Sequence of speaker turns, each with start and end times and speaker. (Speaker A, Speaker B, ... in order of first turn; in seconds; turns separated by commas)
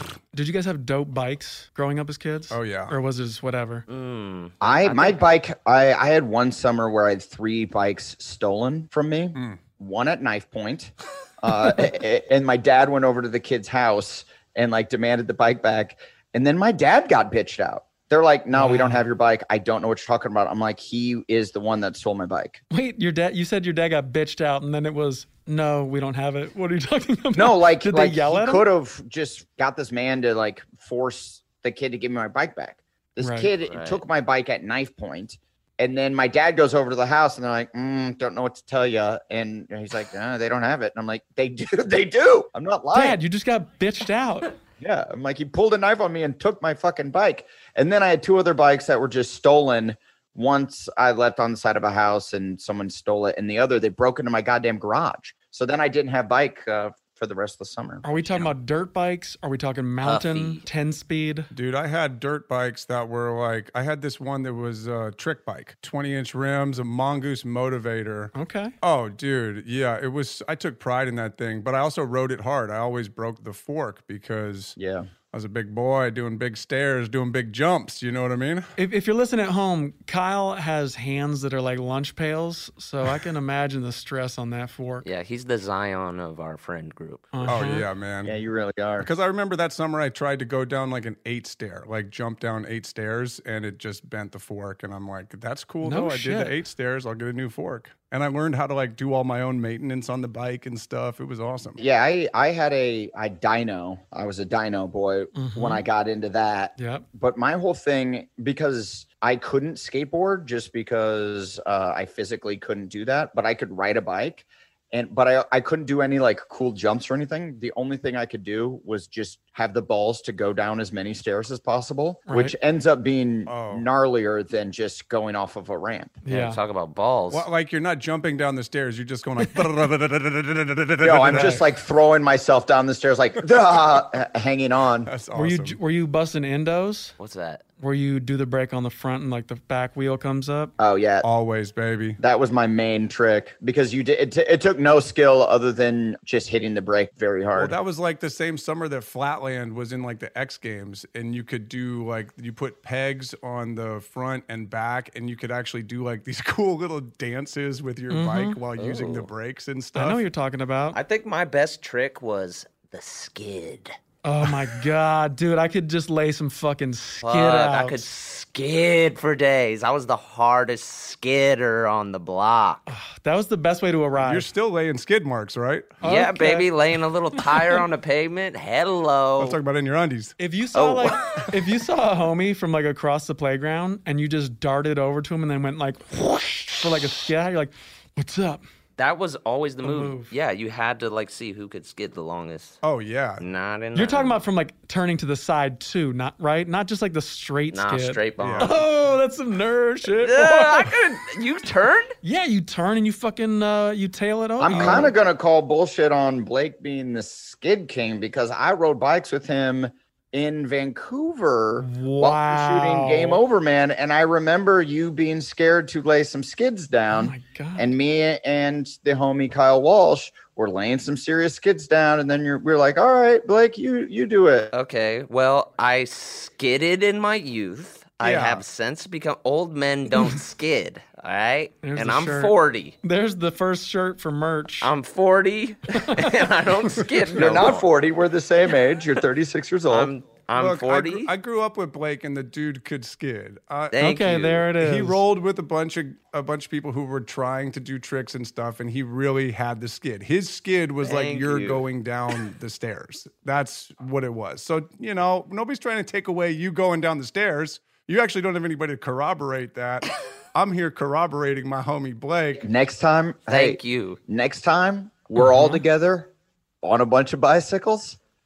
Speaker A: 0.3-3.9, Speaker B: 2.5-2.9, Speaker C: 3.9-5.2, Speaker D: 4.6-22.6, Speaker A: 18.5-19.1, Speaker A: 22.7-28.7, Speaker D: 27.3-43.2, Speaker A: 33.2-33.5, Speaker C: 33.6-34.0, Speaker A: 42.9-44.5, Speaker D: 44.8-58.0, Speaker A: 58.0-61.5, Speaker C: 60.0-60.6, Speaker B: 61.5-74.8, Speaker A: 68.3-68.7, Speaker D: 74.8-75.1, Speaker B: 75.3-78.7, Speaker A: 78.8-85.0, Speaker C: 85.0-87.6, Speaker A: 87.3-87.9, Speaker B: 87.4-88.3, Speaker D: 88.2-89.1, Speaker B: 89.0-101.8, Speaker A: 95.8-96.5, Speaker D: 101.8-126.2, Speaker A: 105.3-105.8, Speaker A: 106.8-107.0, Speaker A: 122.3-122.5, Speaker B: 123.5-123.8, Speaker A: 126.2-126.6, Speaker C: 126.3-127.5, Speaker B: 127.3-131.6, Speaker D: 131.0-135.1, Speaker A: 131.3-131.6, Speaker B: 135.1-135.8, Speaker A: 135.3-137.1, Speaker C: 137.2-137.6, Speaker A: 137.8-140.7, Speaker D: 140.8-141.2, Speaker B: 141.2-142.2, Speaker D: 142.2-147.7, Speaker B: 147.6-160.2, Speaker A: 158.1-158.6, Speaker C: 158.7-159.3, Speaker A: 159.9-161.0, Speaker C: 160.9-163.9, Speaker A: 164.2-168.0, Speaker C: 167.2-172.8, Speaker A: 172.9-174.4, Speaker B: 174.2-176.0, Speaker A: 176.0-176.7, Speaker C: 176.0-179.6, Speaker A: 177.4-177.8, Speaker B: 179.4-180.3, Speaker A: 180.4-188.6, Speaker C: 180.7-181.4, Speaker C: 189.0-192.8, Speaker A: 189.8-190.3, Speaker B: 192.8-193.4, Speaker C: 193.4-194.4, Speaker A: 193.9-200.9, Speaker C: 197.7-198.8, Speaker B: 198.4-198.7, Speaker C: 200.1-202.1, Speaker A: 202.2-205.1, Speaker D: 204.6-224.7, Speaker C: 204.7-205.2, Speaker A: 211.8-213.4, Speaker A: 217.1-217.9, Speaker C: 224.7-232.9, Speaker B: 228.2-228.6, Speaker A: 231.8-234.9, Speaker C: 234.8-237.9, Speaker A: 236.0-236.4, Speaker D: 237.3-240.1, Speaker C: 239.9-241.3, Speaker B: 240.6-244.0, Speaker C: 243.9-244.7, Speaker A: 244.0-245.2, Speaker B: 244.8-262.6, Speaker C: 251.0-251.8, Speaker D: 262.6-266.3, Speaker C: 263.5-264.2, Speaker A: 265.4-265.8, Speaker D: 266.8-268.2